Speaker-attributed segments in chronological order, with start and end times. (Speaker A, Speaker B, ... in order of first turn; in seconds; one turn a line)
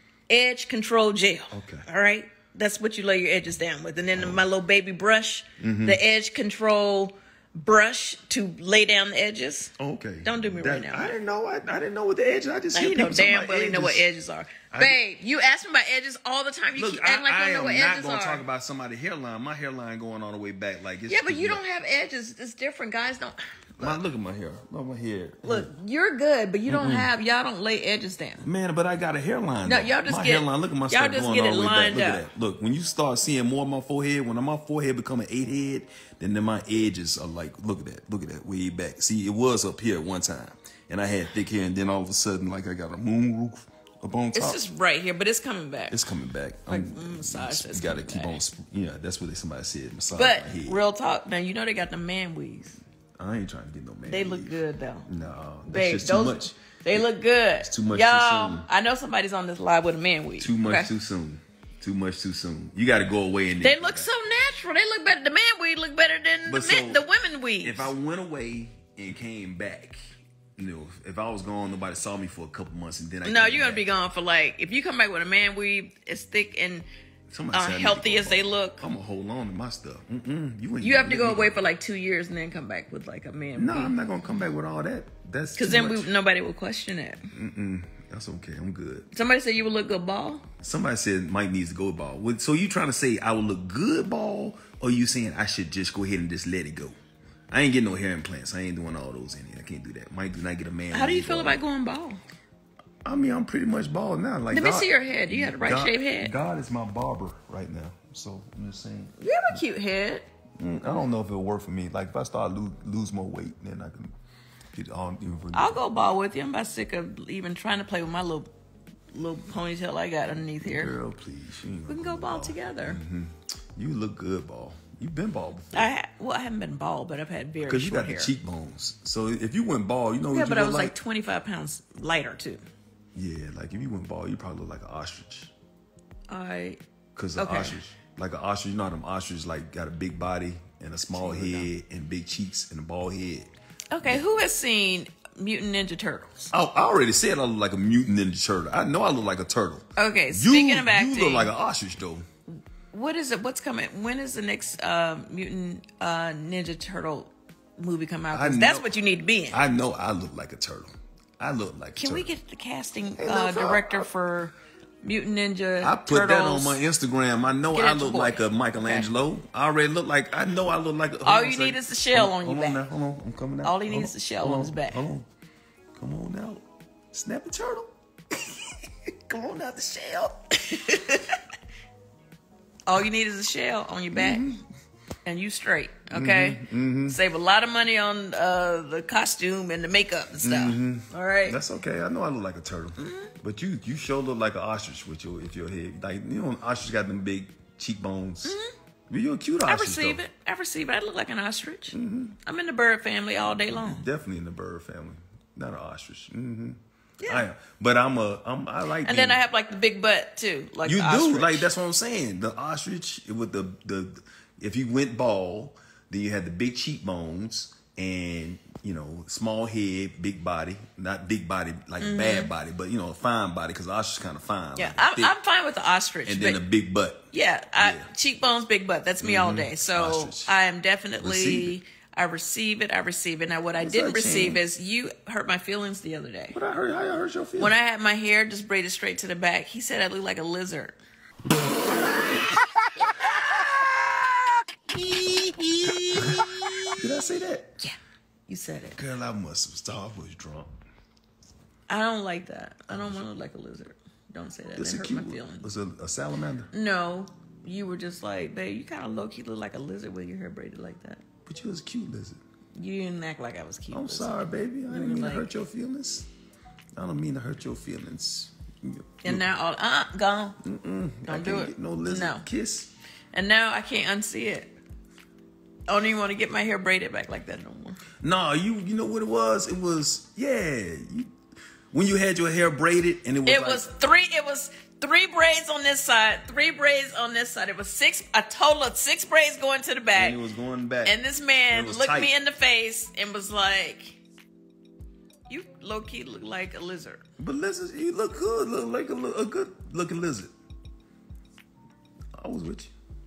Speaker A: 0.3-11.2
Speaker B: 1.5-1.9
Speaker B: 4.1-4.5
Speaker B: 5.6-6.0
Speaker B: 9.8-14.1
Speaker A: 12.7-18.4
Speaker B: 14.7-15.0
Speaker B: 16.8-21.6
Speaker A: 21.1-24.0
Speaker B: 23.8-25.7
Speaker A: 25.4-28.5
Speaker B: 26.7-27.1
Speaker B: 28.4-44.6
Speaker A: 29.6-32.3
Speaker A: 44.3-46.0
Speaker B: 45.9-50.8
Speaker A: 46.7-48.4
Speaker A: 50.1-52.8
Speaker B: 53.2-56.6
Speaker A: 54.0-55.1
Speaker A: 55.7-60.9
Speaker B: 57.6-58.7
Speaker B: 60.4-64.1
Speaker A: 63.6-67.9
Speaker B: 66.5-67.1
Speaker B: 67.6-70.0
Speaker B: 70.6-73.9
Speaker A: 73.2-76.9
Speaker B: 77.3-81.6
Speaker A: 77.5-78.9
Speaker A: 80.8-84.0
Speaker B: 83.6-86.1
Speaker A: 85.6-87.2
Speaker B: 87.3-89.1
Speaker A: 89.1-90.4
Speaker B: 90.6-97.0
Speaker B: 97.5-101.6
Speaker A: 100.9-102.2
Speaker B: 103.0-109.6
Speaker A: 104.5-106.3
Speaker A: 109.2-110.3
Speaker B: 110.6-114.1
Speaker B: 114.7-115.8
Speaker A: 115.5-118.5
Speaker A: 119.1-121.0
Speaker B: 120.6-125.9
Speaker A: 121.9-123.0
Speaker A: 125.7-128.3
Speaker B: 127.6-130.9
Speaker A: 130.3-132.6
Speaker B: 133.2-135.5
Speaker A: 136.3-136.8
Speaker B: 137.2-143.5
Speaker A: 137.4-137.8
Speaker A: 141.1-141.7
Speaker A: 143.9-146.5
Speaker B: 146.5-152.2
Speaker A: 150.0-151.5
Speaker A: 152.9-159.6
Speaker B: 158.3-158.9
Speaker B: 159.5-162.3
Speaker A: 162.0-166.8
Speaker B: 163.2-164.1
Speaker B: 165.8-175.3
Speaker A: 167.7-169.1
Speaker A: 171.2-172.8
Speaker A: 173.6-175.0
Speaker B: 176.0-177.9
Speaker B: 179.3-180.2
Speaker A: 179.5-181.4
Speaker A: 182.9-184.5
Speaker B: 184.1-184.6
Speaker A: 185.2-191.6
Speaker B: 186.1-187.2
Speaker B: 190.4-198.6
Speaker A: 193.0-193.3
Speaker A: 198.4-198.7
Speaker B: 199.1-200.2
Speaker A: 199.6-204.1
Speaker B: 201.9-202.4
Speaker B: 203.7-209.4
Speaker A: 207.2-207.5
Speaker A: 209.0-211.7
Speaker B: 210.8-225.3
Speaker A: 222.0-222.5
Speaker A: 224.8-226.6
Speaker B: 226.2-227.2
Speaker A: 227.3-236.6
Speaker B: 227.8-228.1
Speaker B: 229.2-230.5
Speaker B: 231.2-231.8
Speaker B: 233.8-234.6
Speaker B: 236.5-237.8
Speaker A: 237.6-241.0
Speaker A: 244.9-246.2
Speaker B: 246.2-247.8
Speaker A: 248.5-249.0
Speaker B: 248.9-250.7
Speaker A: 251.9-255.7
Speaker B: 254.8-256.7
Speaker A: 256.7-261.2
Speaker B: 261.5-262.4
Speaker A: 262.8-265.5
Speaker B: 263.9-266.3
Speaker B: 267.0-269.5
Speaker A: 269.2-270.6
Speaker B: 270.6-272.9
Speaker A: 271.3-272.5
Speaker A: 273.3-274.8
Speaker A: 275.9-278.0
Speaker B: 278.2-281.3
Speaker B: 281.9-283.9
Speaker A: 283.5-290.4
Speaker B: 290.1-292.3
Speaker A: 291.0-294.2
Speaker A: 295.5-297.2
Speaker B: 297.4-300.5
Speaker B: 302.4-302.9